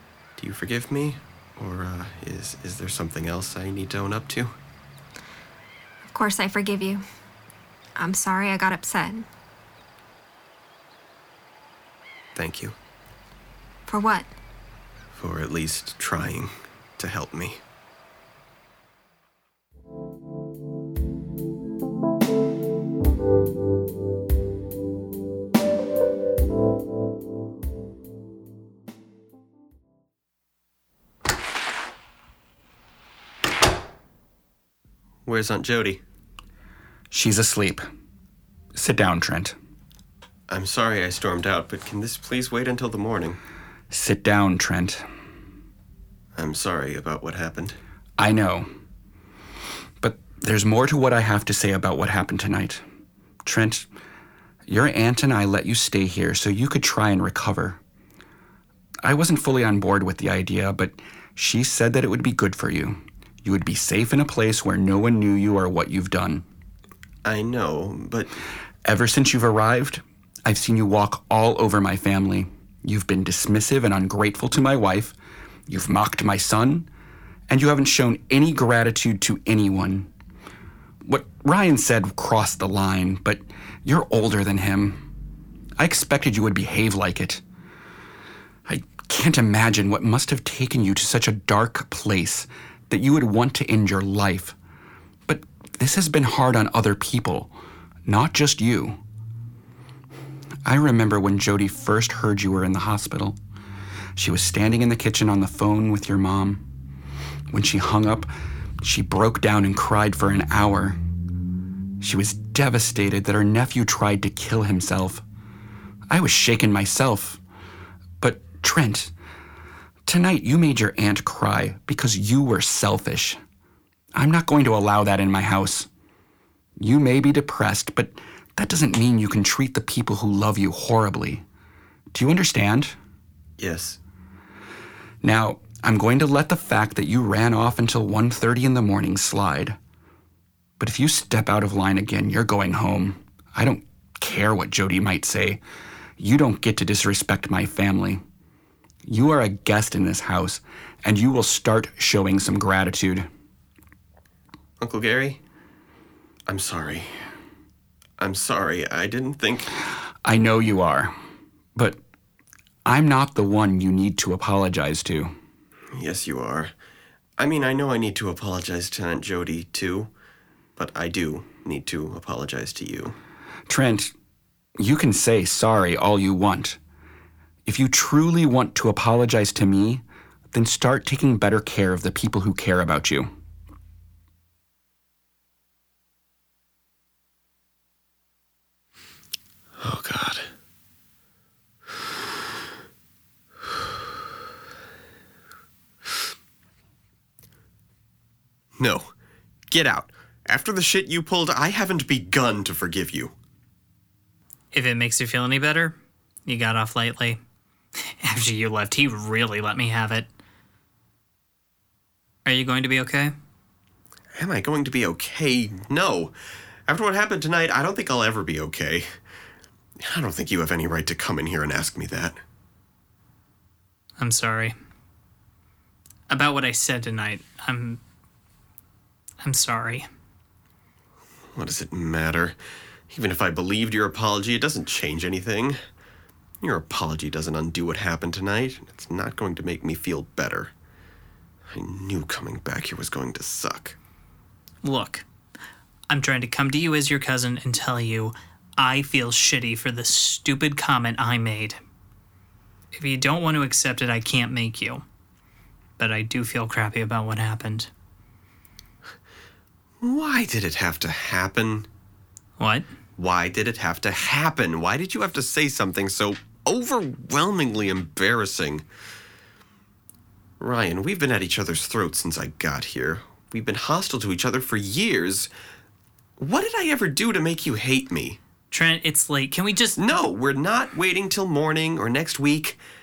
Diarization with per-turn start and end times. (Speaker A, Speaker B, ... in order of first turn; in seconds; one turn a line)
Speaker A: 0.4-4.5
Speaker B: 6.0-7.0
Speaker B: 8.0-9.2
Speaker A: 12.3-12.8
Speaker B: 13.9-14.3
Speaker A: 15.1-17.6
Speaker A: 35.2-36.0
Speaker C: 37.1-37.8
Speaker C: 38.7-39.5
Speaker A: 40.5-43.4
Speaker C: 43.9-45.0
Speaker A: 46.4-47.8
Speaker C: 48.2-48.7
Speaker C: 50.0-52.8
Speaker C: 53.4-53.9
Speaker C: 54.7-57.8
Speaker C: 59.0-66.4
Speaker A: 67.2-68.3
Speaker C: 68.8-75.1
Speaker C: 75.7-76.9
Speaker C: 77.5-80.1
Speaker C: 81.0-85.0
Speaker C: 85.8-87.4
Speaker C: 88.7-94.5
Speaker C: 95.3-97.5
Speaker C: 98.0-99.0
Speaker C: 100.6-103.4
Speaker C: 104.2-106.6
Speaker C: 107.5-108.3
Speaker C: 108.8-111.0
Speaker C: 112.0-115.2
Speaker C: 116.1-117.4
Speaker C: 118.2-119.1
Speaker C: 120.0-123.4
Speaker C: 124.1-125.9
Speaker C: 126.8-131.4
Speaker C: 132.1-132.9
Speaker A: 133.6-134.0
Speaker C: 135.2-139.8
Speaker C: 140.8-145.6
Speaker C: 146.2-148.2
Speaker C: 149.1-153.3
Speaker A: 154.8-155.4
Speaker A: 156.5-157.2
Speaker A: 158.2-159.7
Speaker C: 160.2-161.1
Speaker C: 162.8-165.3
Speaker A: 165.9-166.7
Speaker A: 167.4-170.1
Speaker A: 170.8-173.2
Speaker C: 173.7-174.1
Speaker C: 174.8-176.8
Speaker C: 177.7-183.3
Speaker A: 189.8-190.5
Speaker A: 198.8-199.1
Speaker A: 199.7-203.3
Speaker D: 204.7-205.9
Speaker D: 206.4-207.4
Speaker D: 208.2-210.3
Speaker D: 212.4-213.3
Speaker A: 214.4-216.3
Speaker A: 216.9-219.1
Speaker A: 220.0-222.4
Speaker D: 224.2-224.8
Speaker D: 226.3-228.0
Speaker D: 229.4-230.1
Speaker A: 231.5-232.6
Speaker A: 233.1-235.8
Speaker A: 236.6-240.7
Speaker A: 241.7-243.9
Speaker D: 244.8-245.2
Speaker D: 246.1-251.8
Speaker D: 252.9-255.0
Speaker D: 256.0-257.9
Speaker A: 260.0-261.9
Speaker D: 262.6-262.9
Speaker A: 263.2-268.8
Speaker A: 270.6-275.5
Speaker A: 276.4-278.4
Speaker D: 278.7-280.0
Speaker A: 280.0-282.8